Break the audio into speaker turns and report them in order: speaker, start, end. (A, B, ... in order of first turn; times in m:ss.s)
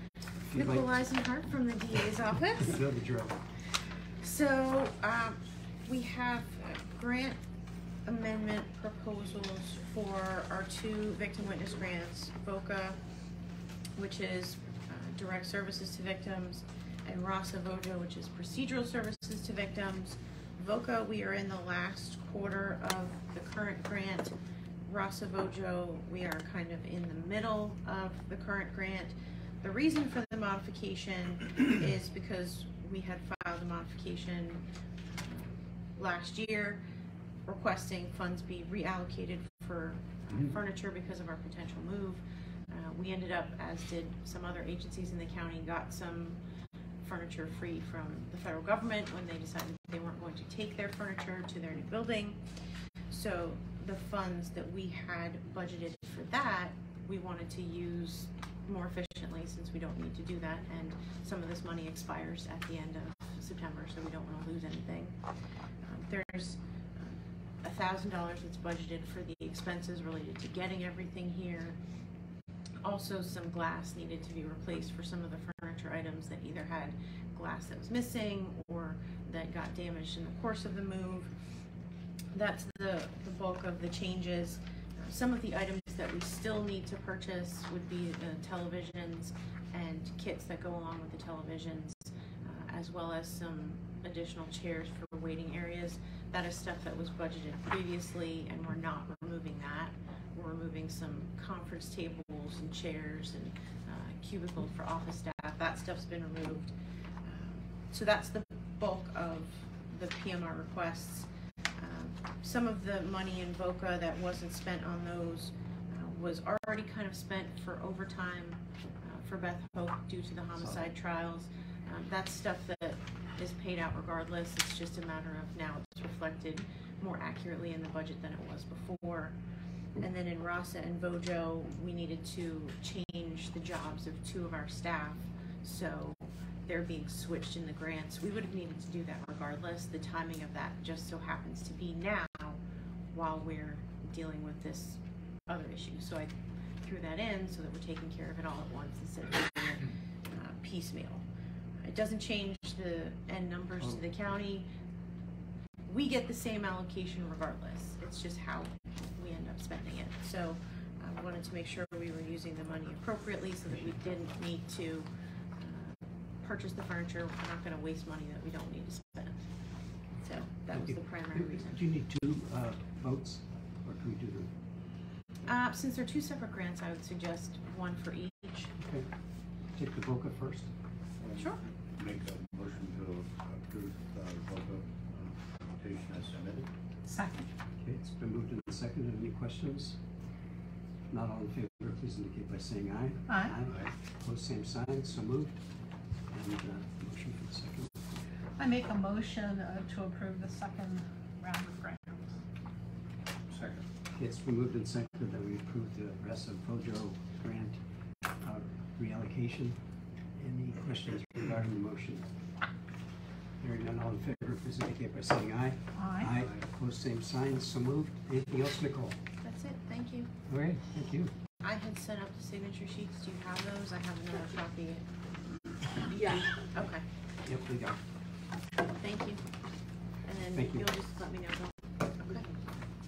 0:00.5-0:01.0 A
0:00.5-0:02.9 B
0:02.6-0:03.4 A
0:03.6-0:07.4 B
0:08.0-0:13.0 B
0:14.0-0:24.3 B
0:24.9-0:36.8 B
0:37.5-0:46.4 B
0:47.0-1:11.8 B
1:12.8-1:21.4 B
1:22.3-2:31.3 B
2:00.6-2:00.9 A
2:31.8-2:34.7 B
2:33.8-2:34.1 A
2:35.9-2:49.4 B
2:43.7-2:44.0 A
2:50.1-2:51.9 B
2:50.7-2:54.5 A
2:55.5-2:58.7 B
2:58.8-2:59.1 A
2:59.7-3:00.7 A
3:01.2-3:06.7 C
3:07.1-3:07.5 D
3:07.8-3:10.0 A
3:11.1-3:15.6 A
3:13.3-3:13.6 D
3:16.3-3:18.3 A
3:18.6-3:22.4 D
3:23.6-3:27.8 A
3:28.4-3:29.8 A
3:30.4-3:32.3 A
3:33.6-3:39.2 A
3:36.0-3:36.3 D
3:39.4-3:40.3 B
3:40.5-3:41.3 A
3:41.6-3:45.0 B
3:46.1-3:47.1 B
3:47.4-3:48.0 A
3:49.0-3:49.5 B
3:50.2-3:52.5 B
3:50.5-3:50.9 A